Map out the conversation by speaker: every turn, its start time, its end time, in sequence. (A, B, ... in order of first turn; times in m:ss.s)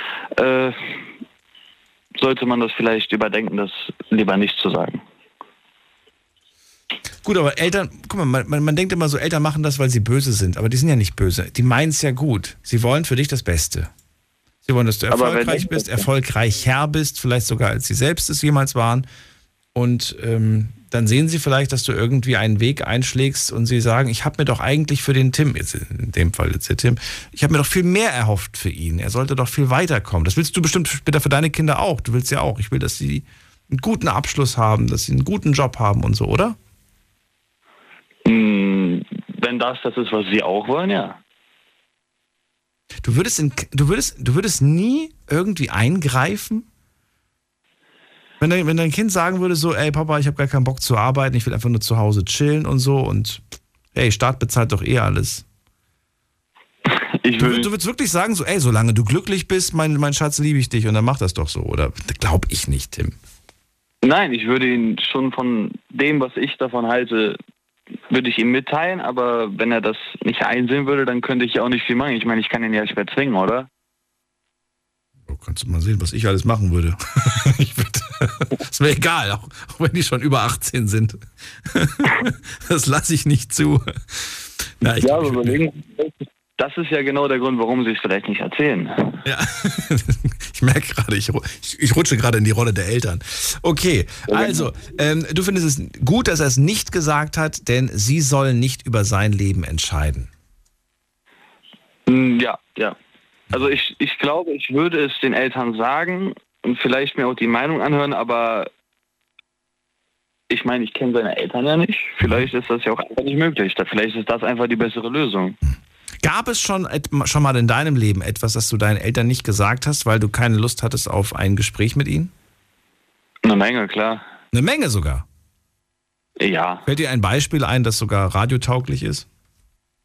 0:00.4-0:01.0 A
0:02.2-0:05.0 A
0:07.2-0:13.9 B
0:14.6-0:19.1 B
0:15.1-0:16.1 A
0:19.7-0:36.6 B
0:38.2-0:41.2 A
0:43.0-0:46.7 B
0:48.4-0:53.4 B
0:53.9-0:55.4 B
0:56.9-0:57.7 A
0:57.4-1:03.2 B
1:04.0-1:07.4 A
1:08.1-1:13.7 A
1:15.2-1:25.6 B
1:25.0-1:29.2 A
1:29.2-1:40.3 B
1:34.3-1:34.7 A
1:42.0-1:43.0 A
1:43.5-1:48.7 A
1:50.5-1:55.6 A
1:52.2-1:52.5 B
1:55.6-2:02.3 B
2:03.4-2:04.2 A
2:04.5-2:05.2 B
2:06.4-2:06.8 A
2:06.8-2:09.2 B